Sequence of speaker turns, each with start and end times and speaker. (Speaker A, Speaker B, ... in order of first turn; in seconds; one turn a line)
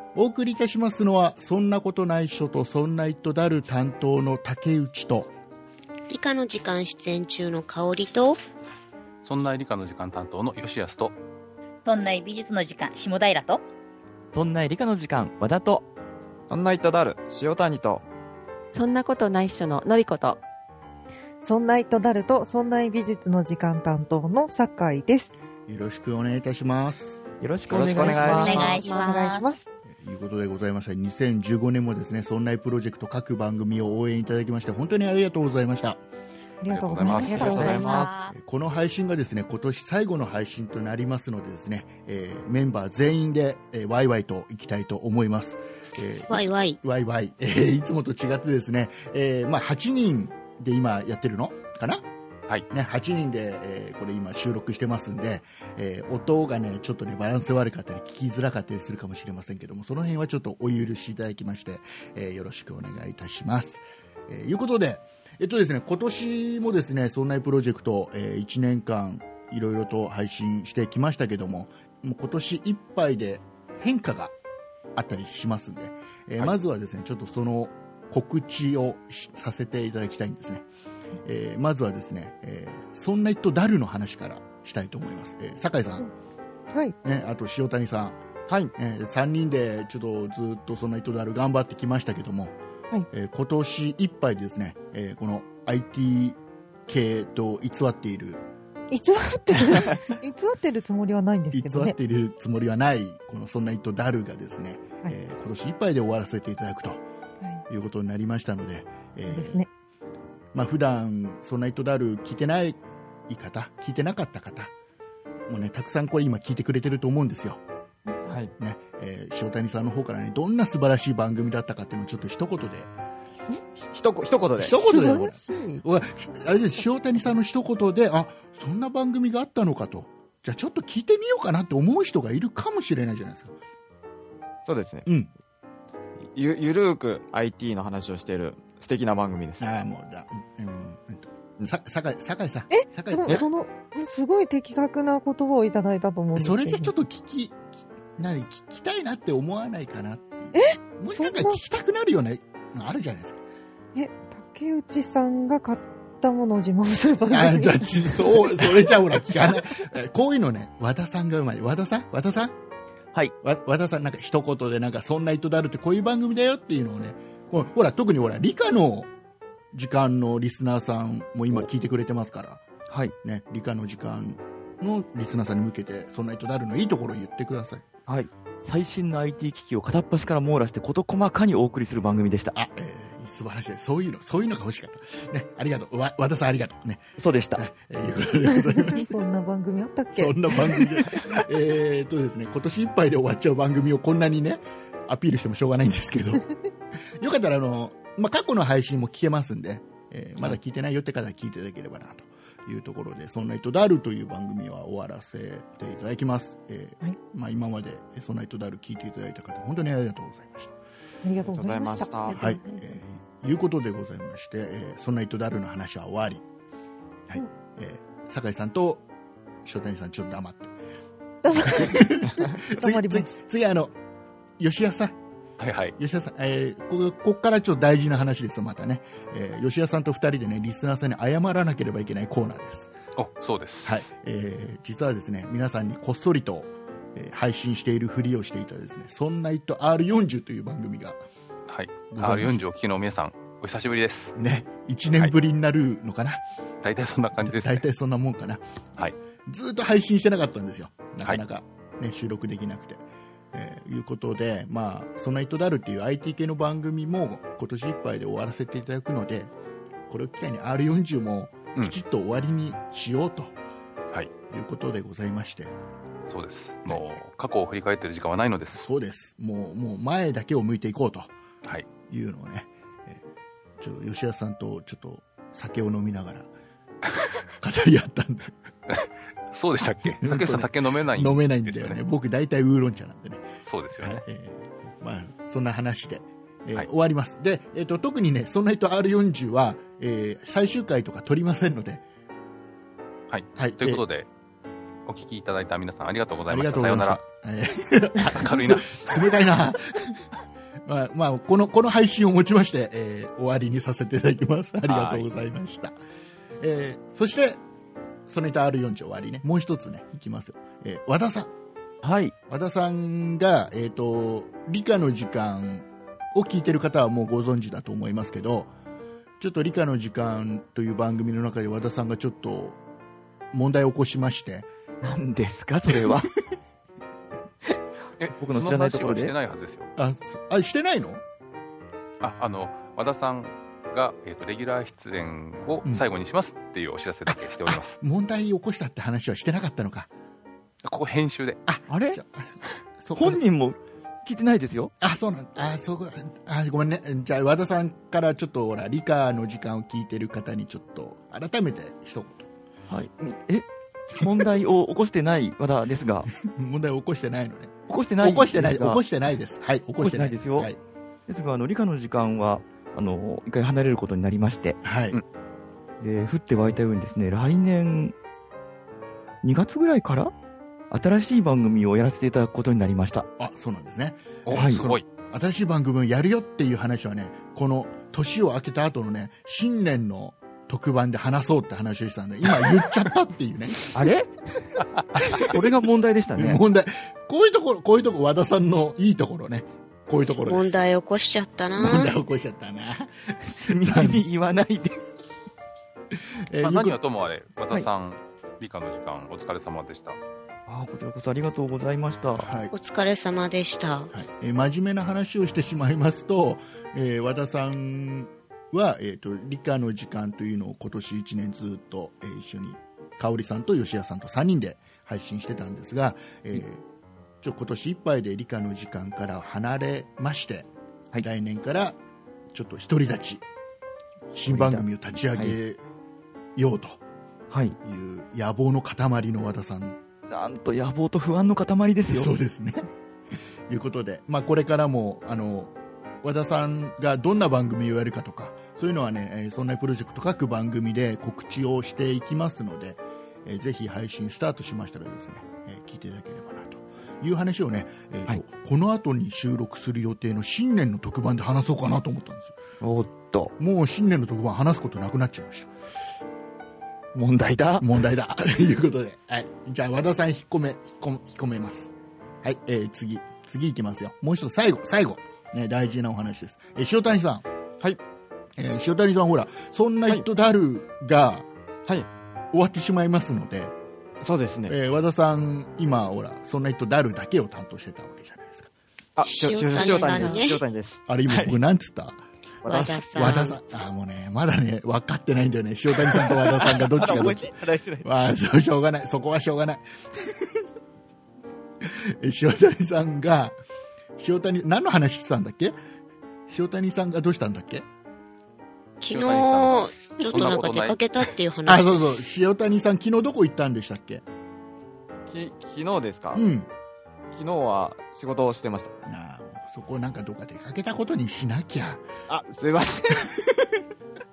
Speaker A: 0.1-5.3
Speaker B: 6.1-8.4
Speaker C: 9.2-11.2
Speaker D: 11.8-13.6
Speaker E: 14.3-15.8
Speaker F: 16.5-18.0
Speaker G: 18.7-20.4
Speaker H: 21.4-25.3
Speaker A: 25.7-27.2
Speaker E: 27.4-28.7
Speaker F: 27.7-28.5
Speaker H: 27.8-29.6
Speaker D: 28.2-29.5
Speaker G: 28.5-29.3
Speaker A: 30.0-36.0
Speaker H: 36.6-38.1
Speaker C: 36.7-38.0
Speaker F: 37.2-38.1
Speaker D: 37.3-38.3
Speaker A: 38.3-52.1
Speaker B: 46.3-46.8
Speaker A: 52.7-74.3
Speaker A: 75.0-80.7
Speaker A: 81.2-86.1
Speaker A: 87.0-88.2
Speaker A: 88.8-92.6
Speaker A: 93.1-98.4
Speaker H: 98.9-102.0
Speaker A: 101.5-107.0
Speaker A: 107.7-109.6
Speaker H: 109.3-109.7
Speaker A: 110.5-114.7
Speaker A: 115.5-117.6
Speaker A: 118.6-122.9
Speaker F: 123.8-124.7
Speaker A: 124.6-133.5
Speaker H: 124.6-126.3
Speaker F: 134.6-135.1
Speaker F: 136.3-139.6
Speaker A: 139.6-143.4
Speaker H: 142.7-146.9
Speaker A: 146.3-147.6
Speaker A: 148.2-153.4
Speaker H: 150.5-151.6
Speaker H: 153.9-158.2
Speaker A: 157.3-162.5
Speaker A: 163.4-169.1
Speaker A: 169.7-172.6
Speaker E: 172.9-173.1
Speaker A: 173.2-177.8
Speaker E: 178.1-182.5
Speaker A: 182.5-189.1
Speaker E: 187.2-187.6
Speaker H: 188.8-190.6
Speaker A: 190.2-196.5
Speaker A: 197.2-210.7
Speaker H: 211.2-212.8
Speaker F: 211.5-212.6
Speaker A: 212.3-216.4
Speaker A: 217.3-219.0
Speaker A: 219.6-220.7
Speaker H: 221.4-223.4
Speaker A: 221.6-223.9
Speaker A: 224.6-225.2
Speaker C: 225.6-225.9
Speaker A: 226.0-232.9
Speaker C: 233.2-234.0
Speaker A: 233.8-241.2
Speaker C: 241.7-244.3
Speaker A: 242.1-242.6
Speaker A: 244.4-246.4
Speaker C: 246.8-247.8
Speaker A: 247.4-248.6
Speaker A: 249.4-259.5
Speaker A: 260.1-263.5
Speaker A: 264.5-265.7
Speaker C: 266.3-268.8
Speaker A: 268.7-271.3
Speaker A: 272.1-273.2
Speaker A: 273.8-276.5
Speaker A: 277.6-278.5
Speaker C: 278.9-282.0
Speaker A: 280.2-283.4
Speaker C: 283.6-284.2
Speaker A: 284.0-292.0
Speaker C: 293.3-294.3
Speaker A: 293.6-294.0
Speaker C: 295.1-297.2
Speaker A: 296.5-300.2
Speaker C: 298.2-299.4
Speaker A: 300.9-306.0
Speaker C: 304.9-305.3
Speaker A: 306.6-307.6
Speaker A: 308.3-311.5
Speaker E: 312.0-312.3
Speaker A: 312.5-318.7
Speaker A: 319.4-322.8
Speaker A: 323.5-324.7
Speaker E: 325.0-326.3
Speaker C: 328.2-329.9
Speaker E: 328.4-329.3
Speaker A: 330.0-331.2
Speaker C: 332.2-337.9
Speaker A: 337.3-340.1
Speaker C: 340.8-341.6
Speaker A: 341.7-343.4
Speaker E: 341.9-342.2
Speaker E: 343.1-344.9
Speaker A: 345.0-352.5
Speaker E: 352.9-356.3
Speaker A: 356.4-360.8
Speaker E: 357.9-359.0
Speaker E: 360.0-360.7
Speaker E: 361.3-364.8
Speaker A: 364.8-365.2
Speaker E: 366.0-368.1
Speaker E: 369.4-370.3
Speaker E: 370.9-373.3
Speaker A: 373.4-383.9
Speaker C: 374.4-375.0
Speaker E: 374.5-374.8
Speaker E: 383.9-384.7
Speaker A: 385.3-385.6
Speaker E: 385.4-386.6
Speaker A: 386.4-390.8
Speaker B: 390.5-392.1
Speaker A: 391.8-394.2
Speaker E: 393.6-395.0
Speaker A: 396.5-397.0
Speaker C: 396.6-400.2
Speaker E: 400.7-402.5
Speaker A: 402.4-402.7
Speaker B: 402.7-404.1
Speaker A: 404.1-416.8
Speaker A: 417.4-420.7
Speaker A: 421.2-422.0
Speaker A: 422.5-423.4
Speaker A: 424.3-425.8
Speaker E: 424.5-425.6
Speaker A: 426.6-427.0
Speaker E: 427.5-427.8
Speaker A: 427.8-430.0
Speaker E: 430.3-432.3
Speaker A: 432.1-432.9
Speaker A: 433.7-452.6
Speaker E: 452.8-453.5
Speaker A: 453.6-455.7
Speaker E: 457.1-457.9
Speaker A: 457.8-461.9
Speaker A: 462.4-467.4
Speaker A: 468.6-471.5
Speaker A: 472.5-473.7
Speaker F: 474.2-474.7
Speaker A: 474.7-478.7
Speaker F: 479.1-481.6
Speaker B: 479.2-480.6
Speaker A: 481.1-482.2
Speaker F: 482.6-483.6
Speaker B: 482.6-483.5
Speaker A: 482.8-490.4
Speaker F: 486.0-488.1
Speaker A: 491.8-493.6
Speaker A: 494.2-495.8
Speaker A: 496.5-497.9
Speaker B: 499.0-502.1
Speaker C: 499.1-501.3
Speaker A: 501.6-504.2
Speaker F: 505.3-506.4
Speaker A: 506.3-506.7
Speaker F: 507.3-508.9
Speaker A: 509.0-512.0
Speaker F: 512.3-513.2